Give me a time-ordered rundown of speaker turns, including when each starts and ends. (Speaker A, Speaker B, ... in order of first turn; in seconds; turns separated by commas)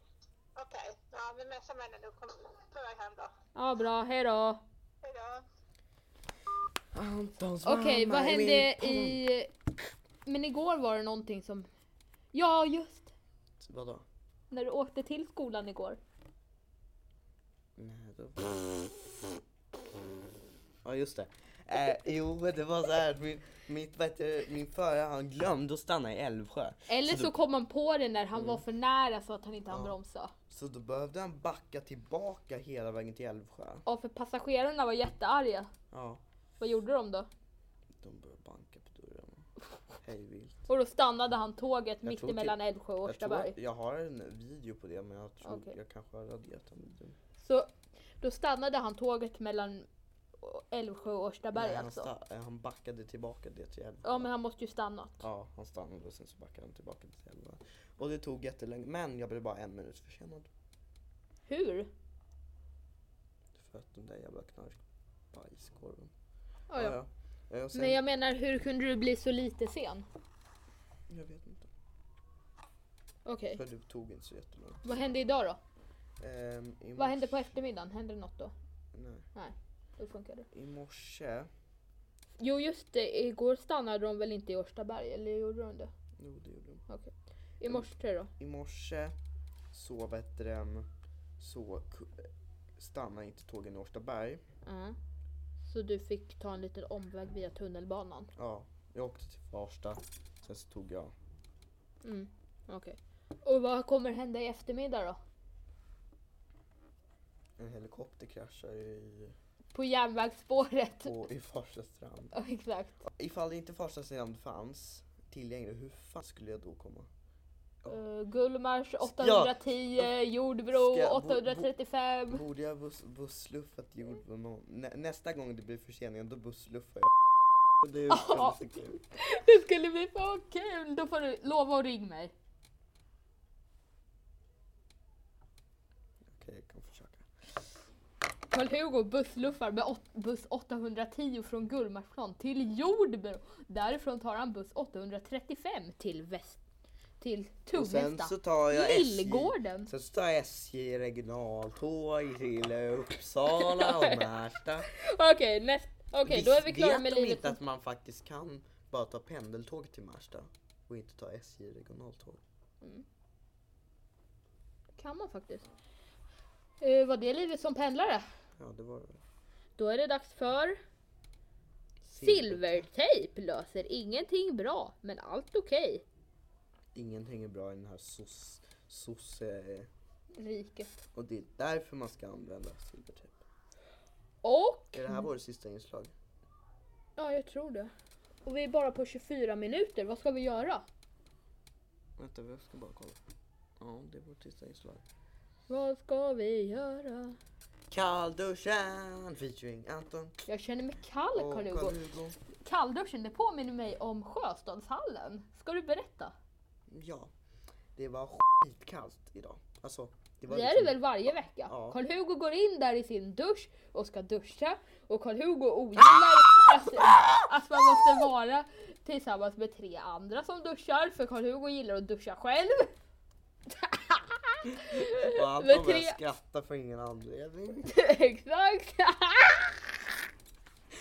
Speaker A: 0.6-3.3, Speaker B: 3.5-4.6, Speaker A: 5.0-5.4, Speaker C: 6.9-9.2, Speaker B: 7.6-9.5, Speaker B: 10.2-11.7, Speaker B: 12.3-13.1, Speaker C: 13.6-14.1, Speaker B: 14.5-16.0, Speaker C: 17.8-19.3, Speaker C: 20.8-27.4, Speaker B: 26.9-30.3, Speaker C: 28.3-28.6, Speaker C: 29.7-29.9, Speaker C: 30.5-33.8, Speaker B: 33.8-35.7, Speaker C: 35.9-36.2, Speaker B: 36.6-37.3, Speaker C: 38.0-39.5, Speaker C: 40.0-40.6, Speaker B: 40.7-43.5, Speaker C: 42.0-47.2, Speaker B: 45.4-45.7, Speaker B: 47.4-49.9, Speaker B: 50.4-52.1, Speaker C: 51.5-54.3, Speaker B: 54.0-55.2, Speaker C: 55.2-60.5, Speaker B: 61.5-61.9, Speaker C: 63.5-64.8, Speaker C: 65.3-66.1, Speaker B: 66.7-67.0, Speaker C: 66.7-68.0, Speaker B: 67.7-70.0, Speaker C: 71.1-71.7, Speaker B: 73.2-73.6, Speaker C: 73.5-75.0, Speaker B: 74.8-75.6, Speaker C: 76.2-77.5, Speaker B: 77.0-78.5, Speaker C: 78.9-79.2, Speaker B: 79.3-80.5, Speaker C: 80.5-81.5, Speaker B: 82.4-85.9, Speaker C: 86.2-86.8, Speaker B: 86.9-88.3, Speaker C: 87.7-89.1, Speaker C: 89.7-94.4, Speaker B: 94.6-95.0, Speaker B: 95.6-98.3, Speaker C: 98.3-101.1, Speaker B: 102.0-105.2, Speaker C: 107.6-109.3, Speaker B: 109.7-111.1, Speaker C: 111.0-112.3, Speaker B: 112.3-113.0, Speaker C: 113.0-117.1, Speaker B: 117.9-122.4, Speaker C: 119.0-120.1, Speaker C: 120.7-121.7, Speaker C: 122.3-129.0, Speaker B: 128.1-128.6, Speaker B: 129.1-132.3, Speaker C: 136.3-137.6, Speaker B: 138.5-146.6, Speaker B: 147.2-149.9, Speaker C: 147.7-154.9, Speaker B: 153.5-154.2, Speaker B: 154.9-157.6, Speaker C: 156.2-162.4, Speaker B: 165.0-165.7, Speaker B: 166.8-168.2, Speaker C: 168.6-169.2, Speaker B: 169.8-170.8, Speaker C: 172.0-172.8, Speaker B: 172.2-176.0, Speaker C: 176.9-179.9, Speaker B: 180.3-181.0, Speaker C: 181.1-183.4, Speaker B: 184.4-185.2, Speaker C: 184.9-186.1, Speaker B: 187.2-187.9, Speaker B: 188.4-190.8, Speaker C: 192.2-193.2, Speaker C: 193.8-195.0, Speaker B: 195.7-197.4, Speaker C: 197.9-200.4, Speaker B: 200.5-201.9, Speaker C: 201.3-202.4, Speaker B: 202.6-206.3, Speaker C: 206.9-207.3, Speaker C: 207.9-211.0, Speaker B: 210.5-222.9, Speaker C: 211.7-212.0, Speaker C: 216.1-217.4, Speaker B: 223.7-226.2, Speaker C: 224.7-227.9, Speaker B: 227.8-229.8